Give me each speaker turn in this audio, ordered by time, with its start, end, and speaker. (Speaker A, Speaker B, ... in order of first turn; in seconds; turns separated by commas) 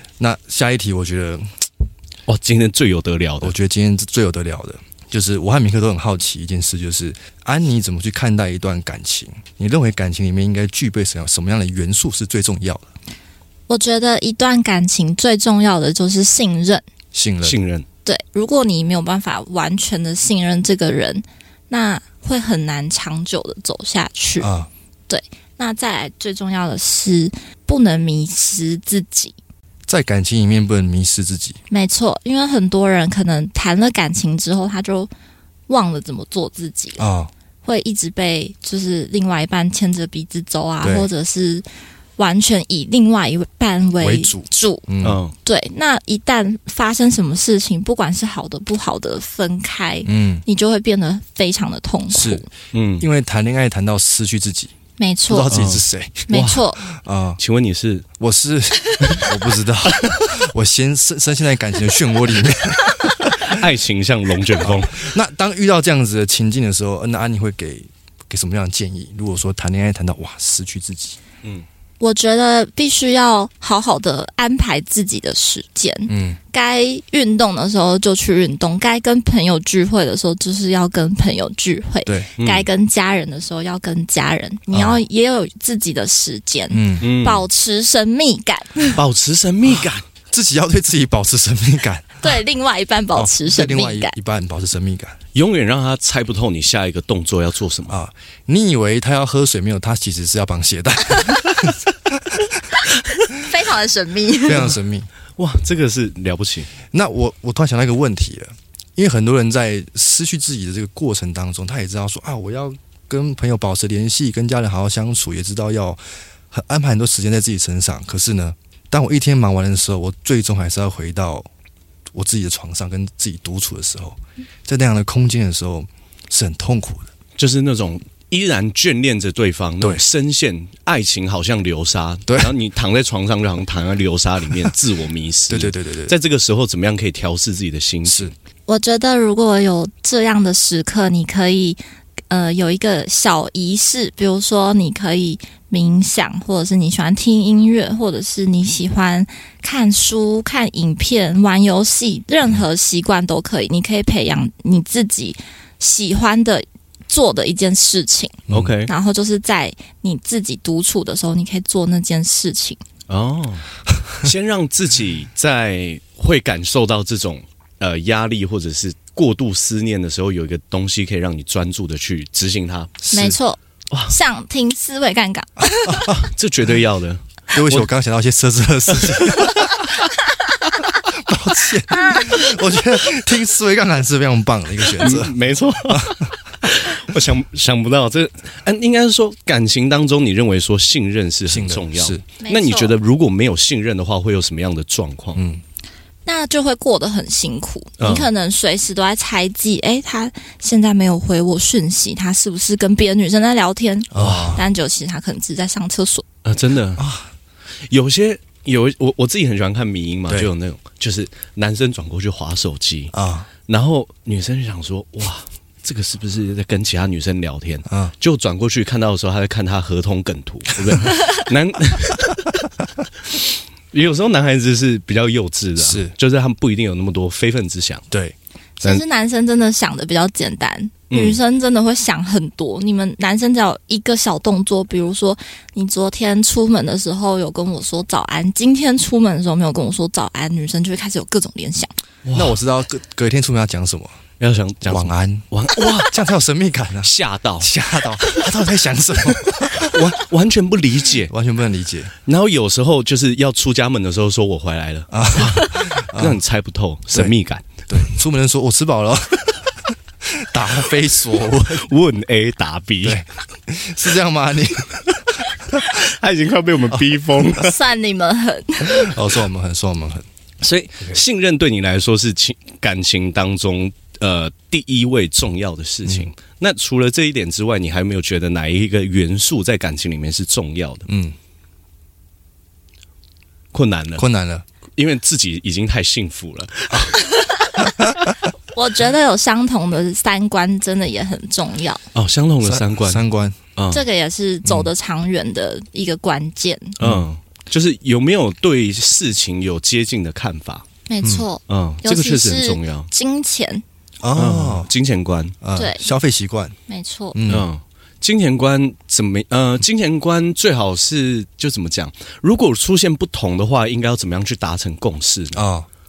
Speaker A: 0.2-1.6, Speaker B: 2.3-3.5, Speaker A: 3.4-12.9, Speaker C: 13.7-16.8, Speaker A: 17.1-17.6, Speaker B: 17.4-17.9, Speaker C: 18.0-24.5, Speaker A: 24.4-24.7, Speaker C: 25.1-29.4, Speaker A: 29.9-31.6, Speaker C: 31.7-35.1, Speaker C: 35.7-37.0, Speaker A: 37.0-37.3, Speaker C: 37.6-41.6, Speaker A: 40.8-41.1, Speaker C: 42.2-44.9, Speaker A: 44.0-45.2, Speaker B: 45.0-45.3, Speaker C: 45.4-52.5, Speaker A: 50.0-50.4, Speaker A: 52.1-52.4, Speaker B: 52.7-53.1, Speaker A: 53.0-54.7, Speaker C: 55.0-55.6, Speaker A: 55.3-56.3, Speaker B: 55.5-56.7, Speaker C: 56.3-56.8, Speaker A: 56.9-57.4, Speaker B: 57.4-58.0, Speaker A: 58.2-63.6, Speaker B: 59.0-59.3, Speaker B: 60.0-60.2, Speaker B: 63.4-65.1, Speaker A: 64.6-71.2, Speaker C: 72.0-89.0, Speaker A: 76.1-76.4, Speaker B: 82.4-82.7, Speaker A: 84.7-85.0, Speaker A: 86.7-87.1, Speaker B: 87.0-87.5, Speaker B: 88.9-90.0, Speaker A: 89.7-92.2, Speaker C: 92.2-94.2, Speaker A: 93.1-95.2, Speaker B: 95.3-98.0, Speaker A: 97.9-102.4, Speaker C: 103.3-104.7, Speaker A: 104.5-105.1, Speaker B: 105.4-106.7, Speaker A: 106.9-121.5, Speaker A: 122.1-127.1, Speaker B: 127.4-138.3, Speaker A: 132.3-132.5, Speaker A: 135.5-136.2, Speaker A: 138.1-138.3, Speaker C: 138.7-141.8, Speaker C: 142.3-162.8, Speaker A: 158.5-158.7, Speaker B: 158.5-158.9, Speaker B: 163.1-172.9, Speaker A: 173.0-173.4, Speaker C: 173.1-176.1, Speaker A: 175.8-176.2, Speaker B: 176.1-177.9, Speaker A: 177.5-179.9, Speaker B: 178.9-179.6, Speaker A: 180.8-185.3, Speaker B: 184.9-195.4, Speaker A: 185.9-186.2, Speaker A: 191.5-192.2, Speaker C: 192.4-192.9, Speaker A: 195.3-195.6, Speaker C: 196.2-206.2, Speaker B: 198.0-198.3, Speaker A: 204.1-204.6, Speaker B: 204.2-204.6, Speaker B: 206.4-207.0, Speaker A: 207.0-207.3, Speaker B: 207.9-213.1, Speaker A: 213.1-213.5, Speaker B: 213.7-222.7, Speaker A: 217.9-218.1, Speaker B: 223.2-228.0, Speaker A: 225.8-226.1, Speaker C: 228.8-241.9, Speaker B: 231.1-231.4, Speaker B: 242.2-242.6, Speaker A: 242.3-244.2, Speaker B: 244.4-246.1, Speaker A: 244.8-250.2, Speaker B: 247.0-248.4, Speaker B: 249.2-251.3, Speaker A: 251.2-252.1, Speaker B: 252.2-257.9, Speaker A: 255.1-256.4, Speaker A: 257.9-261.9, Speaker B: 261.6-263.2, Speaker A: 263.0-265.8, Speaker B: 265.7-267.8, Speaker C: 267.6-269.1, Speaker A: 268.8-270.2, Speaker B: 270.6-281.1, Speaker A: 281.1-281.4, Speaker B: 283.7-284.2, Speaker A: 284.2-284.6, Speaker B: 285.0-287.2, Speaker C: 287.3-287.8, Speaker A: 287.9-288.3, Speaker C: 288.7-292.0, Speaker B: 292.1-293.2, Speaker A: 292.6-293.6, Speaker B: 293.8-294.0, Speaker C: 293.9-297.0, Speaker A: 294.6-294.9, Speaker B: 297.0-300.8, Speaker A: 297.0-297.2, Speaker C: 301.1-303.8, Speaker B: 301.7-303.1, Speaker A: 304.2-304.9, Speaker B: 304.3-305.6, Speaker A: 305.6-306.7, Speaker C: 305.8-306.1, Speaker C: 306.9-307.4, Speaker A: 307.3-307.7, Speaker B: 307.5-315.6, Speaker A: 315.5-315.9